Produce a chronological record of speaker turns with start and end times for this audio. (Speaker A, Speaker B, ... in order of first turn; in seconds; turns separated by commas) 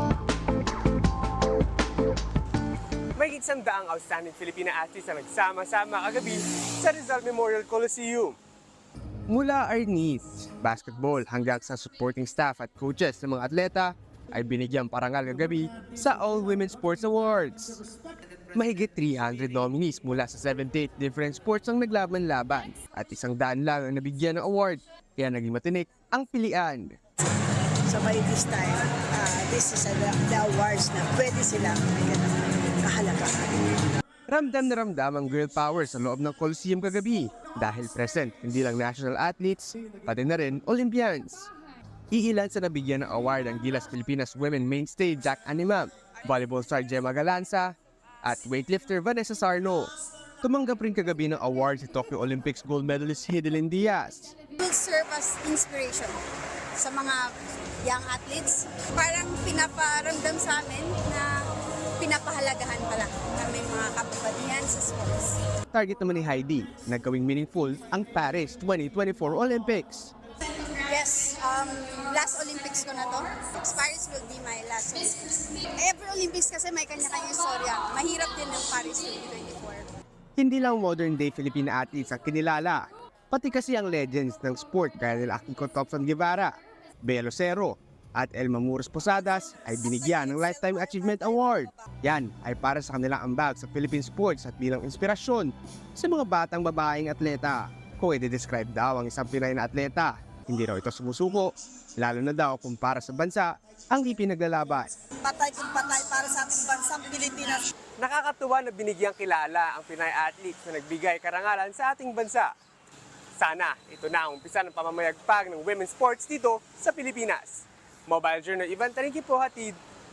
Speaker A: 3.2-8.3, Speaker A: 9.3-17.8, Speaker A: 18.5-26.9, Speaker B: 27.9-33.6, Speaker A: 34.3-41.5, Speaker A: 42.1-54.3, Speaker C: 54.5-56.2, Speaker C: 56.8-57.3, Speaker C: 57.8-61.3, Speaker C: 62.0-65.4, Speaker A: 65.7-70.1, Speaker C: 70.8-79.9, Speaker A: 80.3-104.9, Speaker C: 89.8-91.7, Speaker B: 105.2-107.6, Speaker A: 108.0-112.5, Speaker A: 113.4-119.8